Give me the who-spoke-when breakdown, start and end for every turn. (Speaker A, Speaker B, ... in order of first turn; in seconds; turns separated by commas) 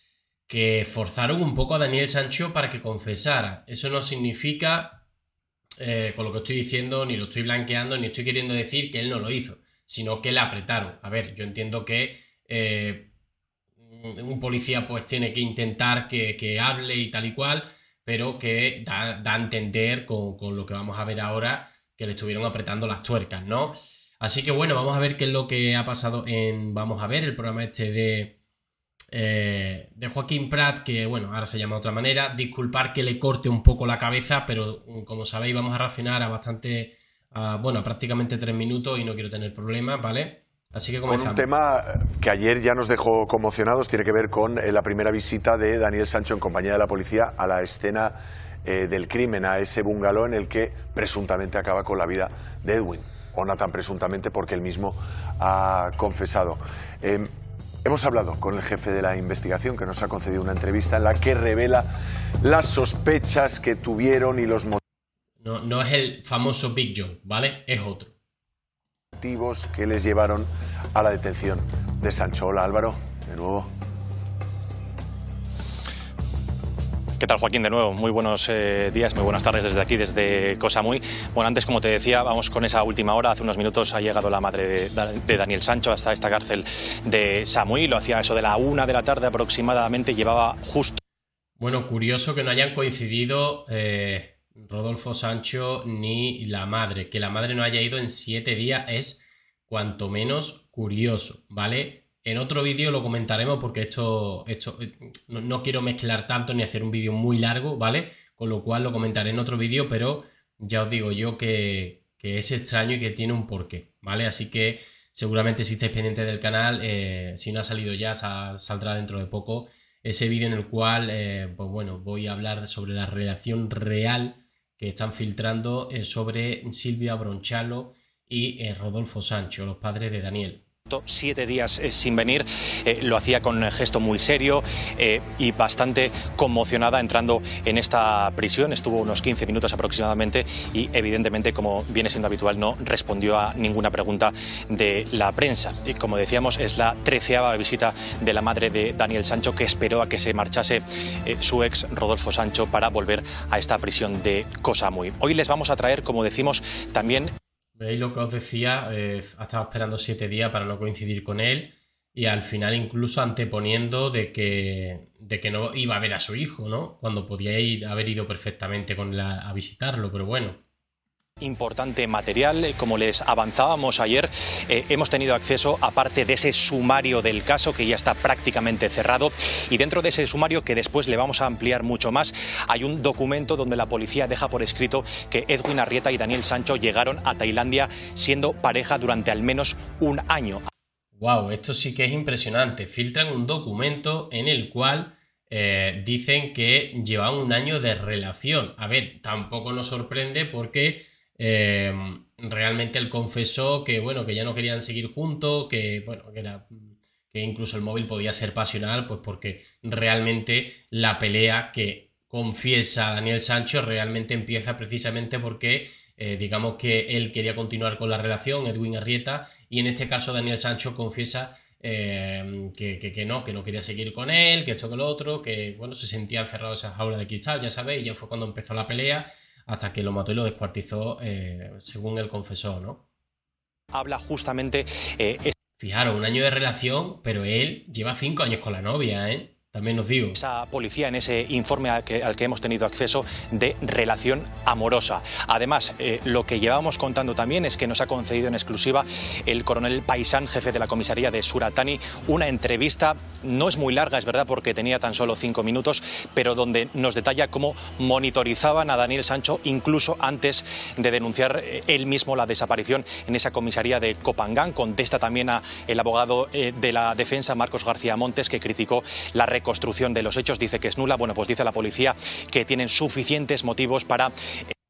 Speaker A: 0.5-5.0, Speaker A: 5.8-13.1, Speaker A: 13.8-28.4, Speaker A: 29.1-41.5, Speaker B: 41.0-57.3, Speaker B: 57.8-61.9, Speaker B: 62.4-64.8, Speaker A: 65.4-68.1, Speaker B: 69.2-73.7, Speaker C: 77.2-91.0, Speaker A: 91.6-130.6, Speaker C: 130.9-157.3, Speaker A: 157.8-170.6, Speaker C: 171.4-190.6, Speaker A: 191.1-233.0, Speaker C: 233.9-235.5, Speaker A: 235.8-240.4, Speaker C: 240.3-274.3